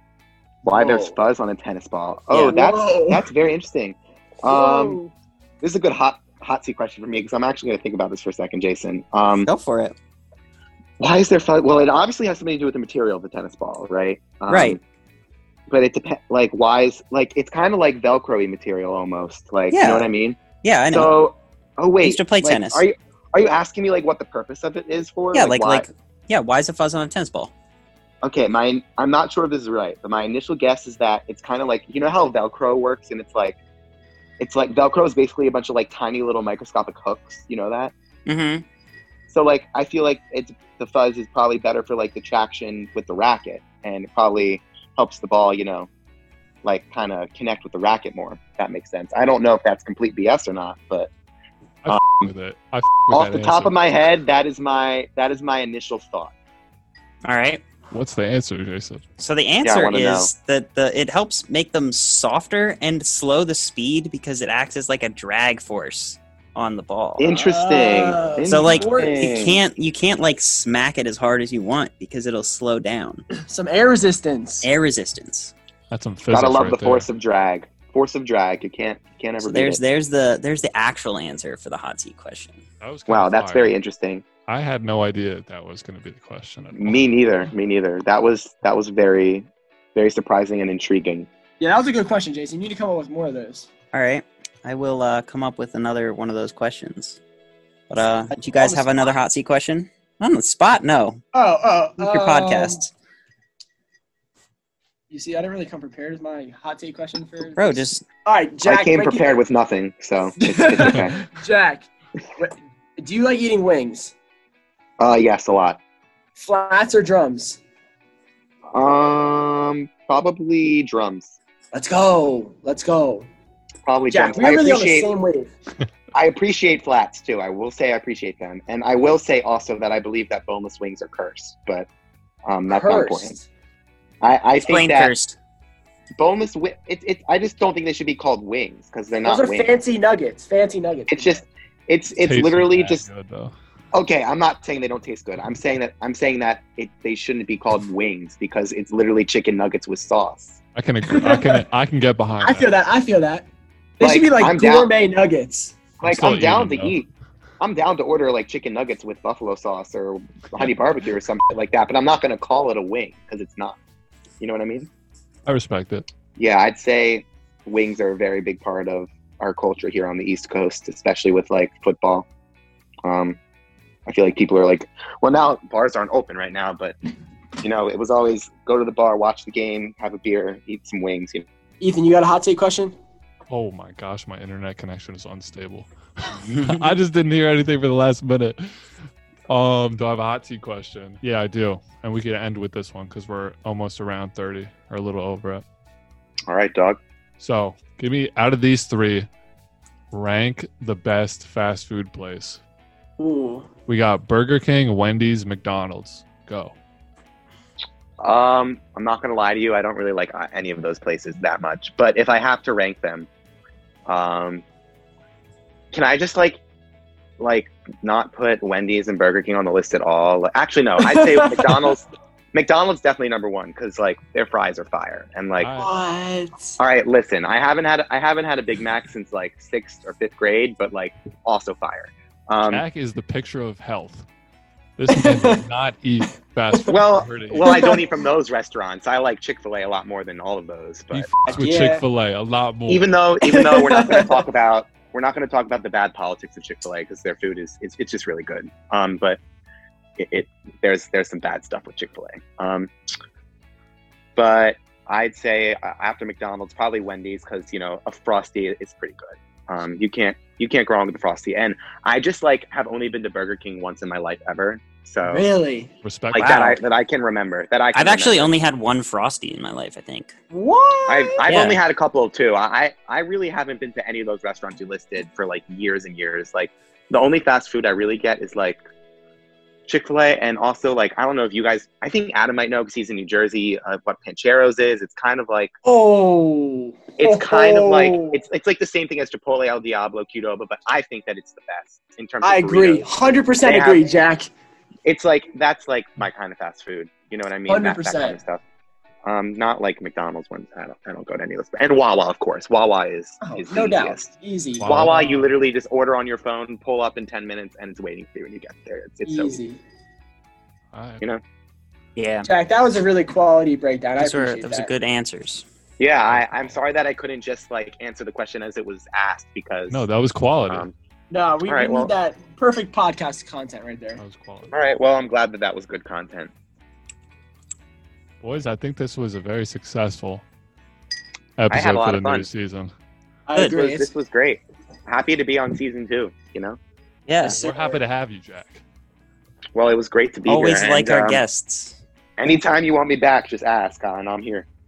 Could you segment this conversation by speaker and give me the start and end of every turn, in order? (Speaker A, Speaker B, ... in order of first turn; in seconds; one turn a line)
Speaker A: 0.6-5.0
Speaker B: 0.7-1.2
Speaker C: 2.3-2.6
Speaker B: 2.4-3.2
Speaker B: 4.5-5.1
Speaker A: 5.6-9.5
Speaker C: 9.4-9.9
Speaker A: 11.0-14.8
Speaker C: 14.5-14.8
Speaker A: 15.7-20.4
Speaker C: 19.7-20.1
Speaker C: 20.6-21.1
Speaker A: 20.9-25.9
Speaker C: 22.0-22.8
Speaker C: 25.3-27.5
Speaker A: 28.2-33.6
Speaker A: 34.4-37.9
Speaker C: 38.2-38.6
Speaker A: 39.3-45.9
Speaker A: 46.6-51.1
Speaker D: 51.8-53.7
Speaker A: 51.9-52.3
Speaker A: 53.1-56.3
Speaker C: 57.2-57.6
Speaker D: 57.9-59.0
Speaker C: 59.2-67.3
Speaker A: 59.6-60.3
Speaker A: 67.2-69.6
Speaker B: 67.3-69.2
Speaker C: 68.5-73.2
Speaker B: 73.4-74.7
Speaker C: 74.6-75.5
Speaker D: 75.9-77.1
Speaker A: 76.3-79.8
Speaker C: 79.4-82.6
Speaker D: 82.8-83.7
Speaker A: 83.1-84.2
Speaker D: 84.5-87.0
Speaker A: 86.8-91.3
Speaker B: 91.6-93.7
Speaker C: 93.9-97.2
Speaker C: 97.9-101.2
Speaker B: 98.5-98.9
Speaker B: 101.3-102.8
Speaker C: 102.0-102.9
Speaker B: 105.1-109.4
Speaker C: 107.6-108.0
Speaker A: 108.6-111.2
Speaker B: 110.4-114.1
Speaker A: 115.0-115.8
Speaker B: 116.3-117.6
Speaker A: 118.7-121.4
Speaker B: 121.7-123.3
Speaker A: 123.8-125.1
Speaker B: 124.1-125.5
Speaker A: 126.1-131.9
Speaker A: 132.4-133.3
Speaker B: 132.7-133.4
Speaker A: 134.2-135.1
Speaker C: 134.7-135.3
Speaker A: 136.2-139.7
Speaker B: 139.2-141.4
Speaker A: 141.1-143.0
Speaker D: 142.2-143.5
Speaker A: 143.9-150.6
Speaker D: 150.7-152.7
Speaker B: 151.0-151.6
Speaker B: 152.4-153.5
Speaker B: 154.0-155.8
Speaker A: 154.0-154.9
Speaker D: 156.0-156.9
Speaker A: 156.0-157.1
Speaker A: 157.6-163.8
Speaker A: 164.4-164.9
Speaker D: 165.4-166.0
Speaker A: 166.4-172.2
Speaker A: 173.0-173.4
Speaker A: 174.1-176.9
Speaker A: 177.6-181.4
Speaker B: 181.8-182.9
Speaker D: 183.5-188.8
Speaker C: 186.4-186.9
Speaker D: 189.5-195.6
Speaker A: 196.5-197.0
Speaker D: 197.4-199.3
Speaker D: 200.1-202.6
Speaker B: 203.2-203.7
Speaker D: 203.9-206.8
Speaker A: 208.2-213.3
Speaker A: 214.1-214.6
Speaker A: 215.9-216.6
Speaker A: 217.4-225.7
Speaker B: 221.0-221.9
Speaker D: 225.6-225.9
Speaker B: 225.8-226.8
Speaker A: 226.8-232.8
Speaker D: 232.7-234.2
Speaker D: 235.0-237.9
Speaker B: 235.1-235.6
Speaker A: 236.9-241.3
Speaker B: 237.6-238.0
Speaker D: 241.1-243.1
Speaker B: 241.5-242.0
Speaker A: 242.9-249.4
Speaker B: 243.4-244.5
Speaker A: 250.2-252.9
Speaker A: 254.3-265.4
Speaker B: 265.2-265.9
Speaker D: 266.0-266.6
Speaker A: 266.3-268.5
Speaker C: 266.3-266.8
Speaker C: 267.9-270.3
Speaker B: 270.5-271.4
Speaker A: 271.1-278.8
Speaker C: 271.4-271.8
Speaker A: 279.9-285.7
Speaker B: 285.8-288.4
Speaker A: 287.2-293.1
Speaker B: 292.4-294.5
Speaker A: 293.6-294.1
Speaker A: 295.0-298.6
Speaker B: 297.7-298.4
Speaker A: 299.2-304.3
Speaker B: 303.4-305.0
Speaker D: 304.8-305.5
Speaker A: 304.8-309.6
Speaker B: 309.2-309.8
Speaker D: 310.9-311.2
Speaker C: 312.1-312.5
Speaker B: 312.4-314.9
Speaker C: 314.2-315.6
Speaker A: 316.0-320.1
Speaker D: 316.3-316.8
Speaker D: 319.9-320.9
Speaker B: 321.3-324.2
Speaker A: 321.6-322.1
Speaker D: 324.2-324.7
Speaker A: 324.7-326.5
Speaker D: 328.4-330.4
Speaker D: 331.6-332.9
Speaker A: 331.7-332.5
Speaker B: 333.5-334.1
Speaker A: 333.7-336.8
Speaker C: 337.3-337.6
Speaker B: 337.4-338.0
Speaker D: 337.4-338.8
Speaker A: 339.7-341.4
Speaker C: 340.5-342.0
Speaker A: 342.4-344.6